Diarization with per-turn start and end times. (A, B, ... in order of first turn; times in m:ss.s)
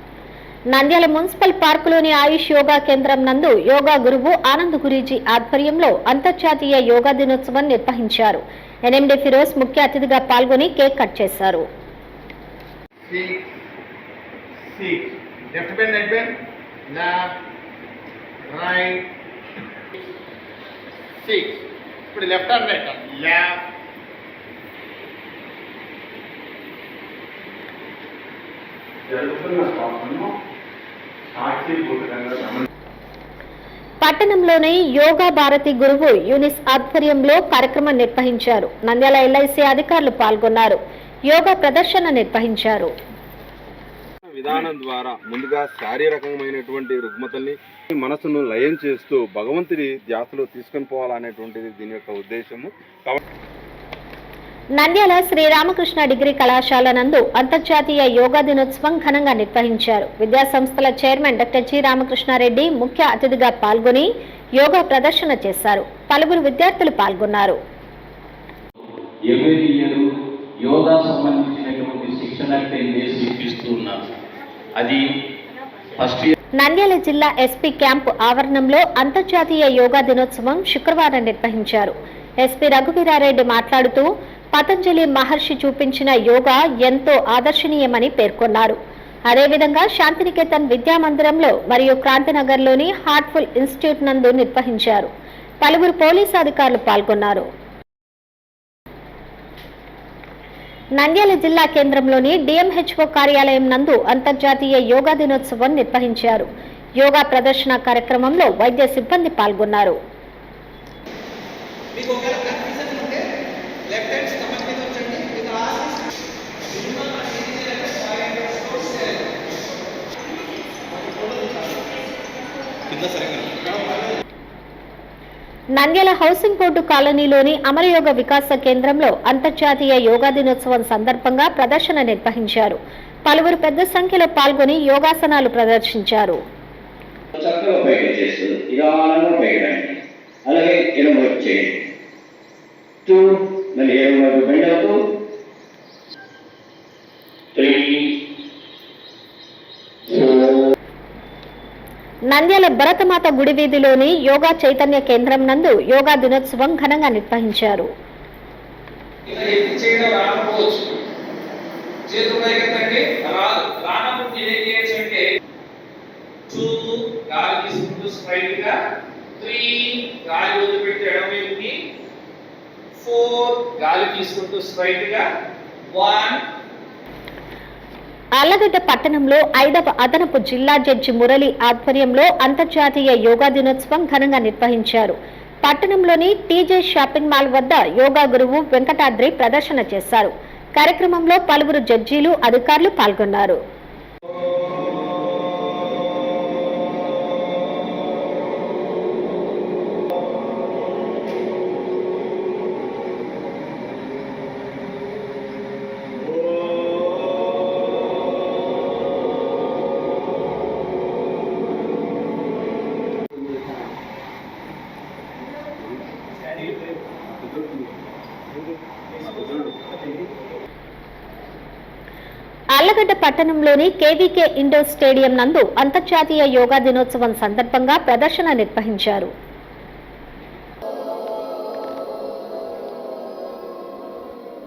0:00.7-0:11.7 A
0:13.1-0:13.4 B
0:14.7-0:16.3 B
0:16.9-0:17.2 B
0:18.5-0:19.0 B
0:21.2-0:21.6 B
0:22.1-0:23.5 B
0:29.5-0:30.2 C
0:31.4-0:32.6 C
0:34.0-0:40.8 A
0:41.3-0:42.9 A
0:44.3-0:53.2 C
0:54.8-1:07.6 A
1:09.3-1:10.1 D
1:10.6-1:14.0 D
1:14.8-1:15.0 D
1:16.0-1:16.3 D
1:16.6-1:28.8 A
1:29.3-1:35.1 A
1:35.6-1:37.5 A
1:41.0-1:46.5 A
1:47.0-1:50.0 A
2:05.8-2:16.4 A
2:17.4-2:21.7 E
2:23.1-2:25.0 E
2:27.6-2:28.1 E
2:32.3-2:37.9 A
2:39.3-2:40.9 F
2:42.1-2:45.2 F
2:46.5-2:48.7 F
2:49.4-2:51.7 F
2:53.0-2:55.2 F
2:55.9-2:56.4 F
2:58.4-3:13.6 A
3:42.8-3:49.3 A